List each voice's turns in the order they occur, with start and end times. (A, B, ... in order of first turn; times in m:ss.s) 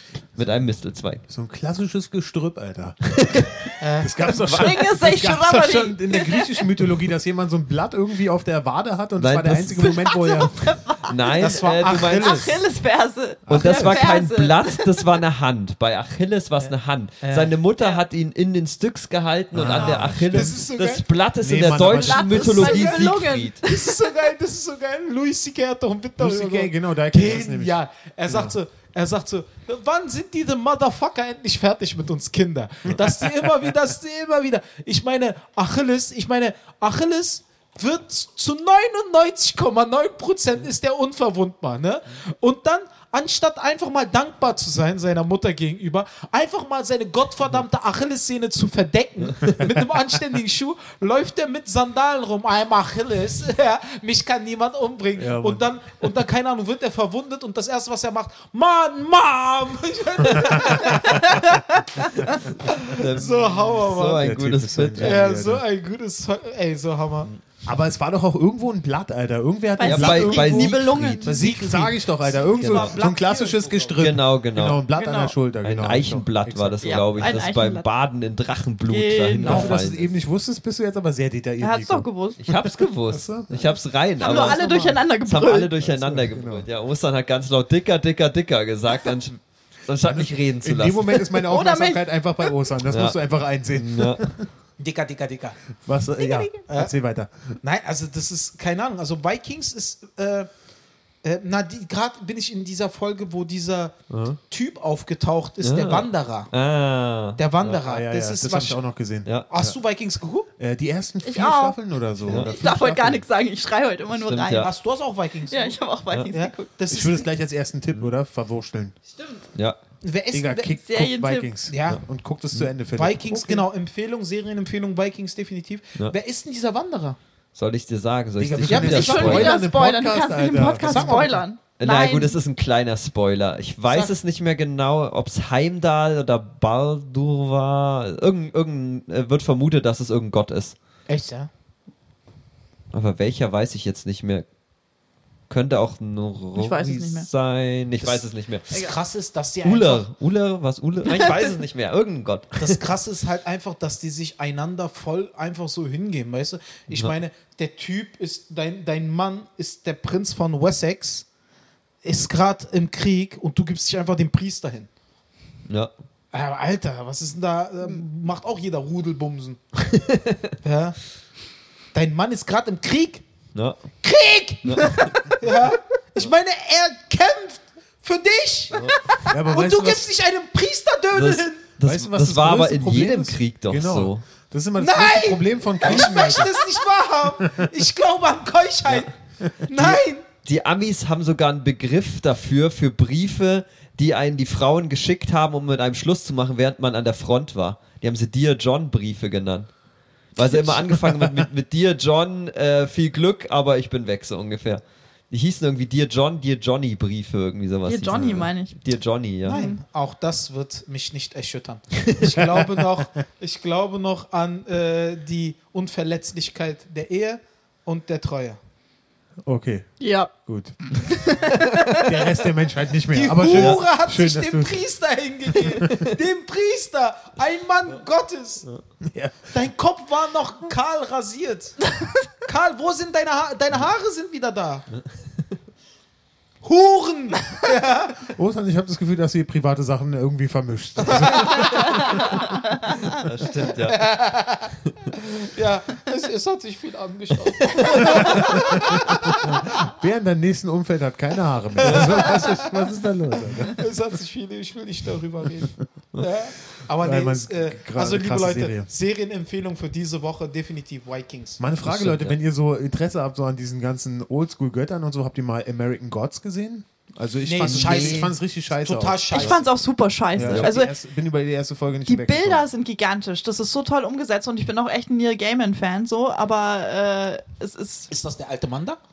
0:00.4-0:01.2 A
0:01.3-0:10.8 B
0:03.1-0:03.7 A
0:03.8-0:04.1 C
0:04.3-0:06.7 D
0:09.2-0:10.0 A
0:09.8-0:15.1 D
0:11.1-0:12.6 A
0:11.4-0:12.6 C
0:13.5-0:23.6 A
0:13.5-0:13.8 B
0:16.6-0:17.6 C
0:19.5-0:20.6 B
0:19.7-0:20.1 D
0:20.2-0:21.0 C
0:21.4-0:22.9 B
0:21.9-0:24.1 D
0:23.6-1:04.2 C
0:26.2-0:28.5 B
0:32.9-0:33.5 B
0:55.2-0:55.7 B
1:00.2-1:01.3 B
1:00.9-1:01.6 D
1:02.7-1:05.2 A
1:04.1-1:05.6 B
1:05.0-1:07.3 C
1:07.6-1:17.3 B
1:09.8-1:11.4 D
1:09.8-1:11.3 A
1:11.2-1:14.0 C
1:12.5-1:13.2 D
1:14.0-1:14.8 A
1:14.9-1:15.4 D
1:15.6-1:20.1 A
1:16.8-1:17.8 D
1:18.9-1:19.8 D
1:19.4-1:25.0 B
1:21.6-1:22.4 D
1:22.4-1:31.2 A
1:24.2-1:25.7 D
1:25.8-1:26.7 B
1:30.0-1:34.5 B
1:31.2-1:32.5 D
1:32.9-1:33.2 A
1:33.7-1:34.2 A
1:34.8-1:35.6 C
1:35.8-1:37.6 B
1:36.2-1:36.6 D
1:36.7-1:36.9 C
1:37.6-1:40.5 C
1:41.2-1:44.0 C
1:44.1-1:44.4 A
1:44.5-1:46.5 C
1:45.6-1:47.8 A
1:47.4-1:48.8 C
1:47.8-1:49.3 B
1:49.2-1:49.6 A
1:49.5-1:50.5 C
1:50.6-1:53.2 B
1:51.2-1:51.8 D
1:52.3-1:52.5 A
1:52.3-1:54.7 D
1:54.1-1:54.7 A
1:54.5-1:57.3 C
1:55.5-1:56.7 D
1:56.9-1:59.0 B
1:59.2-1:59.4 D
2:00.0-2:00.7 C
2:00.3-2:03.7 B
2:00.8-2:01.5 D
2:01.7-2:02.0 C
2:02.9-2:07.2 C
2:07.6-2:09.6 A
2:08.4-2:11.4 B
2:08.7-2:09.3 C
2:08.8-2:12.4 D
2:10.8-2:11.4 C
2:11.8-2:20.8 A
2:13.9-2:14.2 C
2:21.1-2:21.5 C
2:22.9-2:24.4 A
2:25.5-2:28.7 A
2:26.6-2:27.3 D
2:28.0-2:30.1 C
2:29.6-2:32.8 A
2:31.1-2:31.5 D
2:32.6-2:41.3 C
2:42.0-2:44.9 C
2:46.3-2:49.6 C
2:49.9-2:50.5 A
2:50.6-2:51.0 C
2:51.9-2:53.2 C
2:54.0-3:01.6 C
2:54.6-2:55.1 A
2:59.3-3:00.1 B
3:01.1-3:04.2 A
3:01.8-3:06.6 B
3:04.8-3:09.1 C
3:06.0-3:06.5 D
3:07.4-3:07.7 B
3:09.4-3:09.7 B
3:09.7-3:10.2 C
3:09.7-3:19.7 A
3:20.4-3:29.7 A
3:27.9-3:28.8 D
3:28.2-3:28.4 B
3:29.4-3:38.6 C
3:29.5-3:29.8 D
3:32.4-3:32.9 B
3:39.4-3:41.1 B
3:40.0-3:40.3 D
3:40.9-3:42.2 D
3:41.8-3:44.8 B
3:43.1-3:48.7 C
3:43.5-3:43.8 A
3:49.0-3:49.5 B
3:49.5-3:51.8 C
3:52.4-3:54.9 C
3:56.6-3:58.3 C
3:58.3-4:02.5 B
4:01.0-4:01.6 C
4:01.5-4:02.2 D
4:03.1-4:04.1 A
4:03.9-4:09.7 C
4:07.6-4:08.2 A
4:08.0-4:13.9 B
4:11.8-4:12.8 C
4:11.9-4:12.1 A
4:13.6-4:21.6 C
4:17.0-4:18.9 B
4:21.6-4:29.6 B
4:21.8-4:22.4 A
4:27.4-4:29.7 C
4:27.6-4:28.3 A
4:29.3-4:30.9 D
4:30.3-4:32.7 B
4:30.4-4:30.7 A
4:32.1-4:38.1 D
4:38.1-4:39.0 C